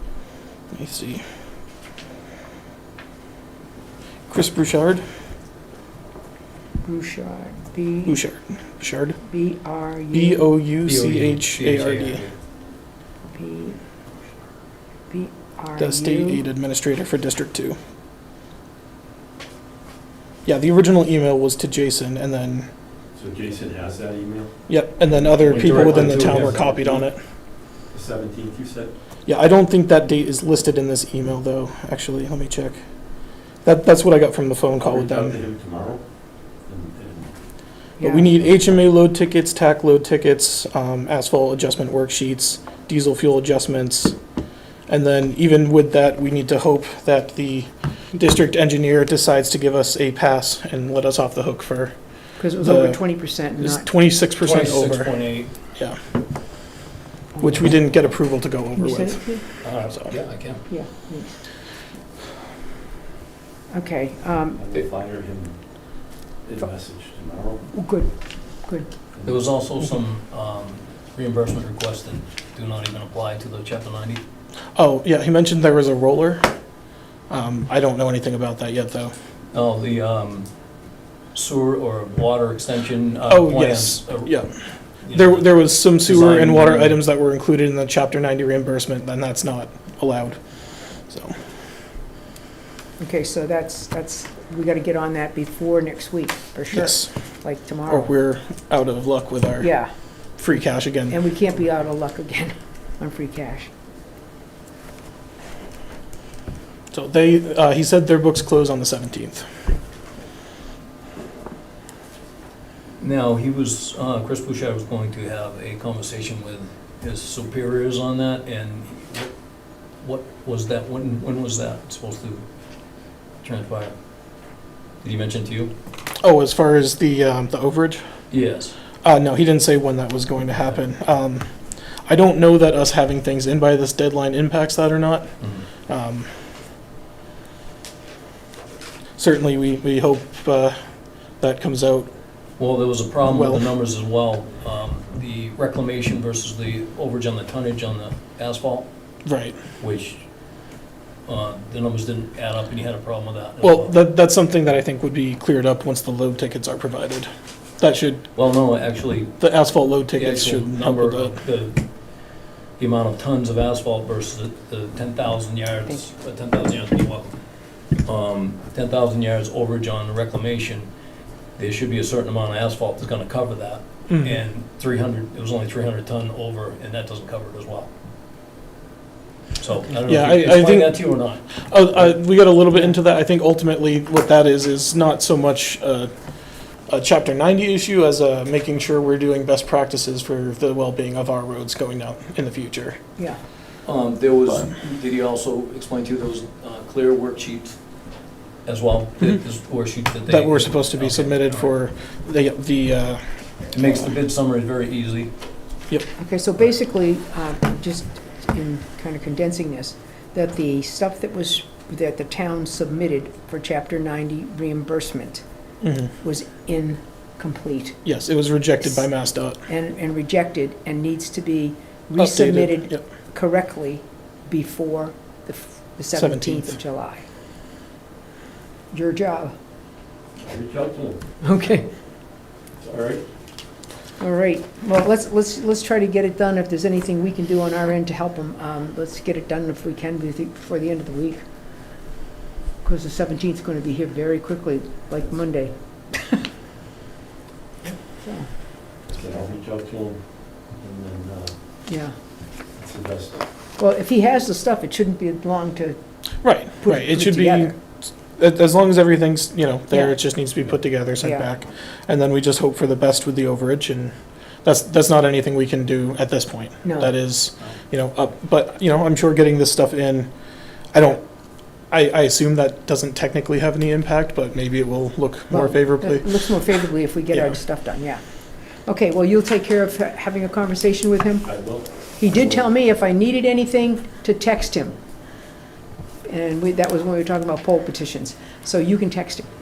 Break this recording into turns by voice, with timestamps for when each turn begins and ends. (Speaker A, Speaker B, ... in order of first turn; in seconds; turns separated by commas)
Speaker A: 0.7-1.2, Speaker A: 4.3-5.0, Speaker B: 6.8-8.2, Speaker A: 8.1-9.2, Speaker B: 9.2-10.5, Speaker A: 10.1-12.2, Speaker C: 10.8-12.3, Speaker B: 13.3-13.8, Speaker B: 15.1-16.4, Speaker A: 15.8-17.8, Speaker A: 20.4-22.7, Speaker D: 23.1-24.6, Speaker A: 24.7-27.2, Speaker C: 25.3-26.7, Speaker D: 25.4-27.1, Speaker D: 27.9-28.9, Speaker A: 29.2-32.8, Speaker A: 33.6-35.4, Speaker D: 34.8-37.3, Speaker B: 38.0-38.3, Speaker A: 38.0-44.1, Speaker A: 44.9-52.0, Speaker B: 52.4-53.9, Speaker A: 52.5-55.1, Speaker C: 54.4-55.5, Speaker B: 57.3-57.8, Speaker A: 57.4-59.4, Speaker B: 58.7-59.4, Speaker C: 59.6-60.6, Speaker B: 60.7-61.4, Speaker B: 63.7-64.6, Speaker D: 64.5-67.7, Speaker B: 67.7-68.9, Speaker D: 69.1-69.5, Speaker C: 69.2-74.2, Speaker A: 74.7-76.5, Speaker A: 77.3-79.1, Speaker C: 79.5-80.5, Speaker C: 81.3-84.4, Speaker A: 83.3-84.5, Speaker C: 85.0-87.0, Speaker A: 85.1-91.3, Speaker B: 93.0-98.1, Speaker A: 96.7-97.1, Speaker A: 97.9-101.2, Speaker B: 99.6-99.9, Speaker B: 101.1-103.7, Speaker A: 106.9-109.5, Speaker C: 113.0-119.3, Speaker C: 120.0-122.4, Speaker C: 123.4-123.9, Speaker C: 125.0-125.7, Speaker A: 126.2-128.0, Speaker C: 128.3-128.8, Speaker A: 129.0-131.5, Speaker A: 132.0-135.3, Speaker C: 135.4-135.7, Speaker A: 135.9-136.3, Speaker A: 139.2-140.8, Speaker A: 141.4-142.1, Speaker C: 142.6-148.9, Speaker A: 143.2-143.7, Speaker A: 149.2-149.6, Speaker C: 149.8-150.2, Speaker C: 151.2-153.9, Speaker A: 153.6-158.3, Speaker C: 158.3-159.4, Speaker A: 159.4-161.4, Speaker C: 160.1-161.8, Speaker C: 162.8-170.9, Speaker C: 171.6-177.9, Speaker A: 174.1-174.4, Speaker C: 179.6-181.6, Speaker A: 180.0-181.1, Speaker A: 181.6-186.1, Speaker A: 186.9-193.0, Speaker C: 193.8-197.8, Speaker C: 198.6-201.7, Speaker A: 200.3-203.2, Speaker C: 203.7-205.3, Speaker B: 206.2-215.4, Speaker A: 215.8-216.1, Speaker B: 216.2-218.0, Speaker A: 218.0-219.6, Speaker B: 219.7-227.2, Speaker A: 222.2-223.0, Speaker A: 226.1-226.8, Speaker B: 228.9-229.5, Speaker D: 230.4-231.2, Speaker B: 231.4-231.9, Speaker D: 232.8-233.2, Speaker B: 234.2-241.4, Speaker B: 242.8-246.4, Speaker B: 248.1-248.5, Speaker D: 249.1-251.6, Speaker B: 251.9-252.2, Speaker D: 252.7-253.4, Speaker B: 253.8-256.0, Speaker A: 256.4-264.1, Speaker B: 256.6-257.7, Speaker B: 259.9-260.2, Speaker B: 261.2-261.5, Speaker A: 264.6-270.3, Speaker B: 266.8-267.1, Speaker A: 270.9-271.2, Speaker A: 271.9-276.5, Speaker B: 275.5-278.2, Speaker B: 278.8-281.6, Speaker D: 281.4-282.6, Speaker B: 282.2-284.9, Speaker B: 286.2-289.5